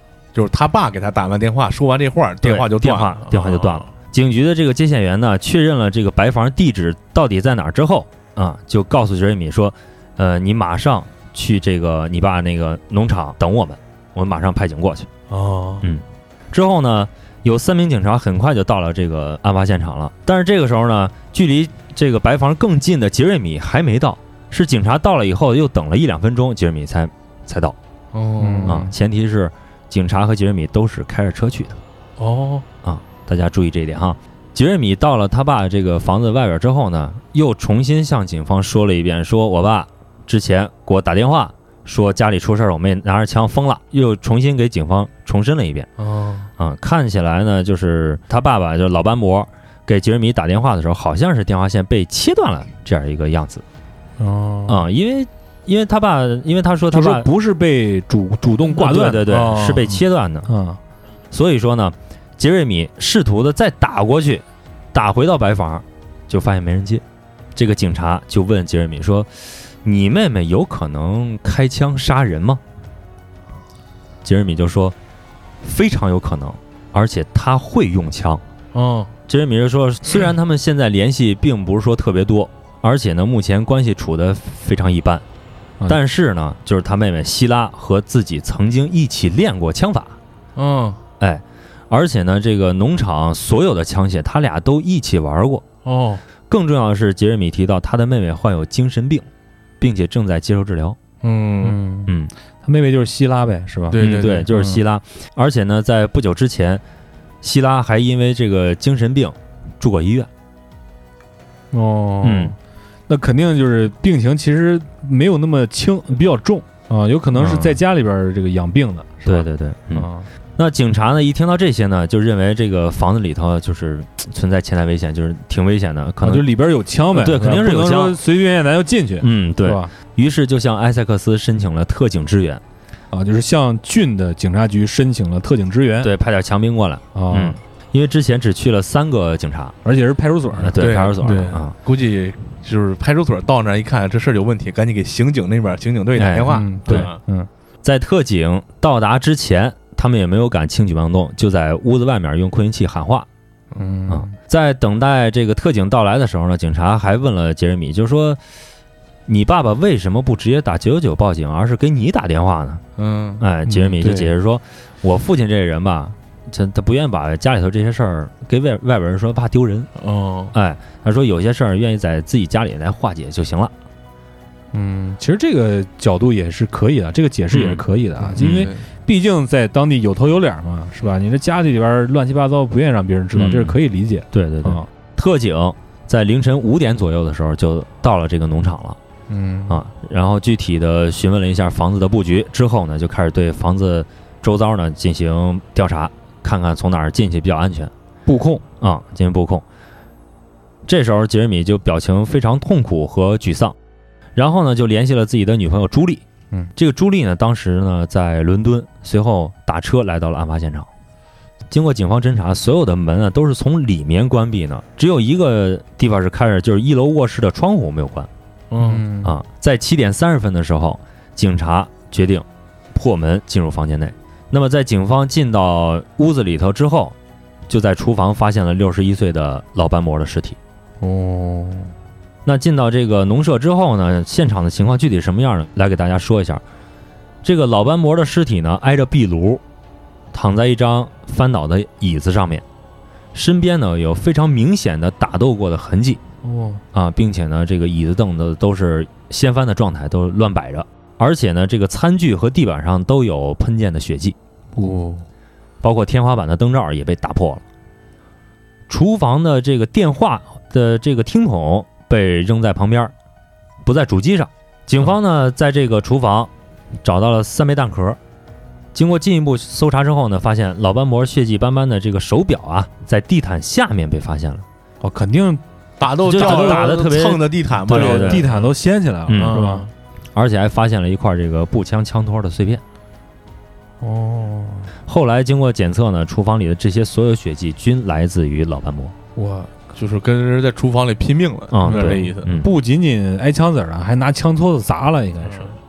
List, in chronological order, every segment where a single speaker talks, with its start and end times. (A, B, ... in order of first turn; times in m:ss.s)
0:00.3-0:03.9 A
0:02.4-0:15.1 B
0:15.3-0:15.9 A
0:15.8-0:27.8 B
0:28.1-0:28.8 A
0:28.4-0:28.9 C
0:28.6-0:31.8 B
0:32.2-0:32.7 A
0:32.8-0:45.9 B
0:46.0-0:46.5 A
0:46.6-0:53.6 B
0:54.2-0:54.8 C
0:54.7-0:57.3 B
0:56.9-0:59.3 C
0:58.7-1:00.5 B
0:59.3-1:00.0 A
1:00.5-1:00.8 C
1:01.3-1:07.0 B
1:07.5-1:12.6 B
1:14.2-1:15.0 B
1:15.6-1:18.4 B
1:18.7-1:19.1 A
1:19.3-1:25.2 B
1:25.9-1:30.2 B
1:30.6-1:31.0 A
1:31.2-1:35.6 B
1:35.8-1:36.2 A
1:36.5-1:39.2 B
1:39.8-1:41.0 B
1:41.2-1:41.8 A
1:41.6-1:42.1 C
1:42.6-1:44.8 C
1:43.9-1:44.5 A
1:44.0-1:46.8 B
1:47.4-1:50.3 B
1:51.7-1:52.6 C
1:52.2-1:52.5 B
1:53.1-2:00.3 C
1:57.4-1:57.8 B
1:59.2-2:06.5 B
2:06.2-2:09.9 C
2:07.1-2:08.2 B
2:09.2-2:12.6 B
2:13.1-2:16.1 C
2:16.0-2:19.8 B
2:17.1-2:17.6 C
2:19.8-2:21.5 C
2:20.5-2:21.7 B
2:20.8-2:27.2 A
2:26.1-2:27.1 B
2:26.5-2:27.5 C
2:27.8-2:33.3 B
2:33.8-2:34.4 C
2:34.1-2:38.4 B
2:39.3-2:42.8 B
2:43.0-2:43.4 A
2:43.4-2:49.9 B
2:43.6-2:44.3 C
2:50.0-2:50.5 A
2:50.5-2:53.7 B
2:54.7-3:04.9 C
2:57.5-2:57.8 B
2:58.2-2:58.8 A
2:58.4-2:58.7 B
3:03.3-3:03.8 B
3:04.3-3:09.0 B
3:09.3-3:09.8 C
3:09.7-3:17.9 B
3:18.2-3:18.6 C
3:18.8-3:19.6 B
3:20.9-3:23.8 B
3:24.4-3:26.2 B
3:26.8-3:30.9 B
3:31.7-3:38.3 B
3:38.7-3:39.0 A
3:38.8-3:39.3 C
3:39.2-3:47.2 B
3:47.7-3:50.6 B
3:51.0-3:51.9 C
3:52.4-3:56.6 B
3:57.4-3:59.6 B
4:00.3-4:02.6 B
4:03.3-4:06.2 B
4:06.4-4:06.8 C
4:06.9-4:14.4 B
4:14.8-4:15.2 C
4:15.8-4:17.6 B
4:18.9-4:23.1 B
4:23.8-4:26.5 B
4:27.0-4:28.2 B
4:28.9-4:34.6 B
4:35.0-4:35.6 C
4:36.0-4:38.6 A
4:36.2-4:36.9 C
4:36.2-4:38.4 B
4:37.9-4:39.9 C
4:39.3-4:39.6 B
4:39.4-4:39.9 A
4:40.4-4:42.8 B
4:44.0-4:44.9 C
4:45.1-4:49.1 B
4:49.4-4:49.7 C
4:49.9-4:52.5 A
4:51.7-4:52.7 B
4:51.8-4:55.8 C